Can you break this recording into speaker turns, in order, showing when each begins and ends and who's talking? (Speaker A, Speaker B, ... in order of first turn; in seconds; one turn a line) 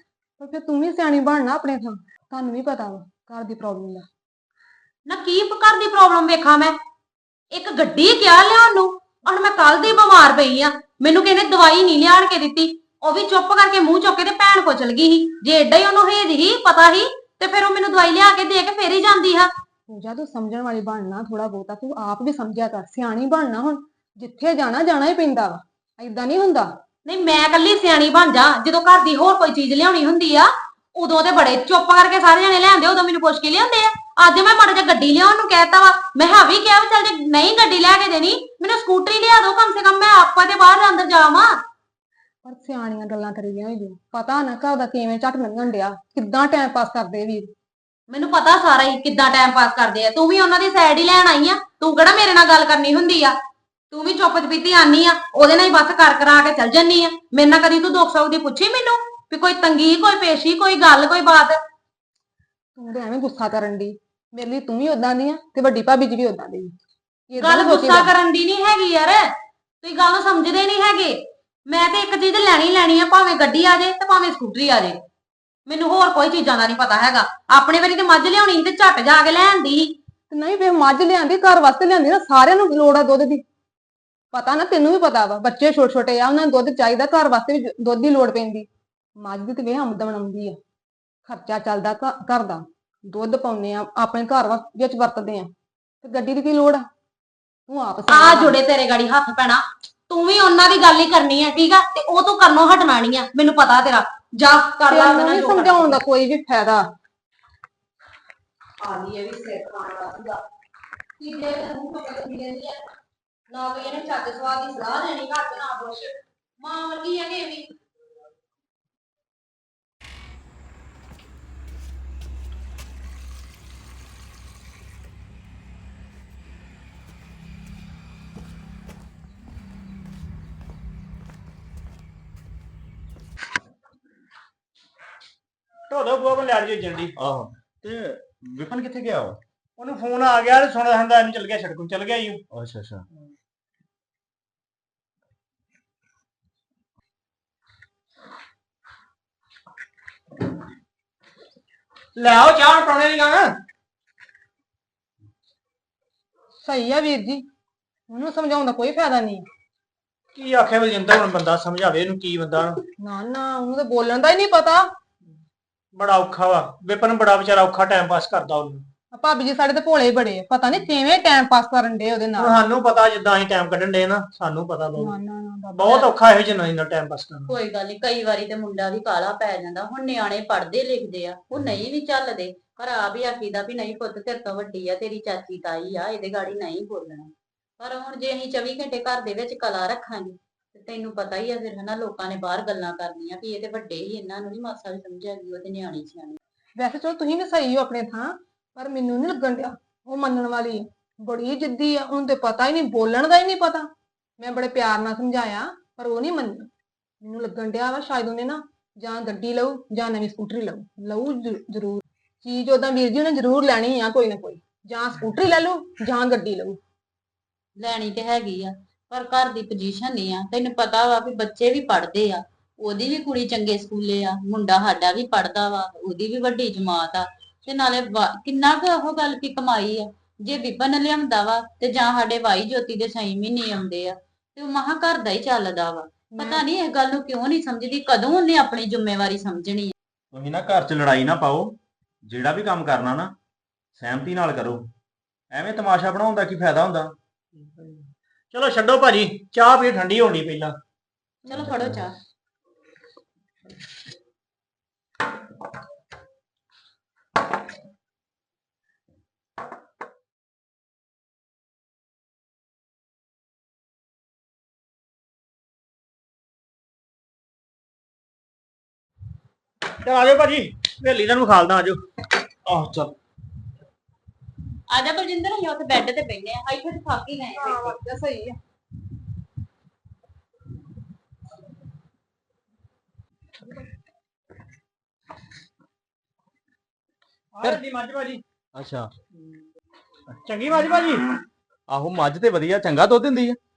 Speaker A: 0.4-4.0
Speaker B: 5.0-6.7
Speaker B: 7.5-19.5
Speaker A: 19.9-26.7
Speaker B: 27.1-41.5
Speaker A: 42.4-47.5
Speaker B: 48.1-53.3
Speaker B: 53.9-61.5
Speaker A: 62.8-66.7
Speaker A: 67.3-68.1
Speaker B: 67.4-69.2
Speaker B: 69.8-75.0
Speaker B: 75.7-79.9
Speaker A: 80.3-83.4
Speaker A: 84.3-88.7
Speaker A: 89.2-90.6
Speaker A: 91.2-95.5
Speaker A: 96.0-96.8
Speaker A: 97.7-98.6
Speaker B: 98.1-106.0
Speaker A: 104.9-106.9
Speaker A: 108.9-110.4
Speaker A: 111.2-112.8
Speaker A: 113.5-116.1
Speaker B: 116.6-117.5
Speaker A: 116.7-117.5
Speaker C: 135.9-137.1
Speaker D: 137.2-139.4
Speaker C: 139.8-142.4
Speaker D: 142.5-143.0
Speaker C: 152.2-153.6
Speaker A: 156.6-157.4
Speaker A: 158.1-159.4
Speaker C: 160.3-162.8
Speaker A: 163.0-164.8
Speaker C: 165.9-168.9
Speaker A: 169.1-172.6
Speaker C: 172.4-175.1
Speaker A: 175.0-176.1
Speaker C: 175.8-177.5
Speaker E: 177.5-196.4
Speaker A: 196.8-203.9
Speaker A: 204.4-206.7
Speaker A: 207.2-216.8
Speaker E: 217.8-239.9
Speaker A: 236.3-236.6
Speaker D: 240.3-243.3
Speaker D: 244.0-244.9
Speaker D: 245.5-247.1
Speaker C: 247.6-250.8
Speaker E: 251.4-252.1
Speaker D: 251.5-252.0
Speaker C: 270.0-272.0
Speaker D: 272.6-273.1
Speaker E: 274.9-277.9
Speaker A: 277.6-278.6
Speaker C: 287.5-288.4
Speaker D: 288.7-289.1
Speaker C: 290.4-291.2
Speaker D: 291.9-293.6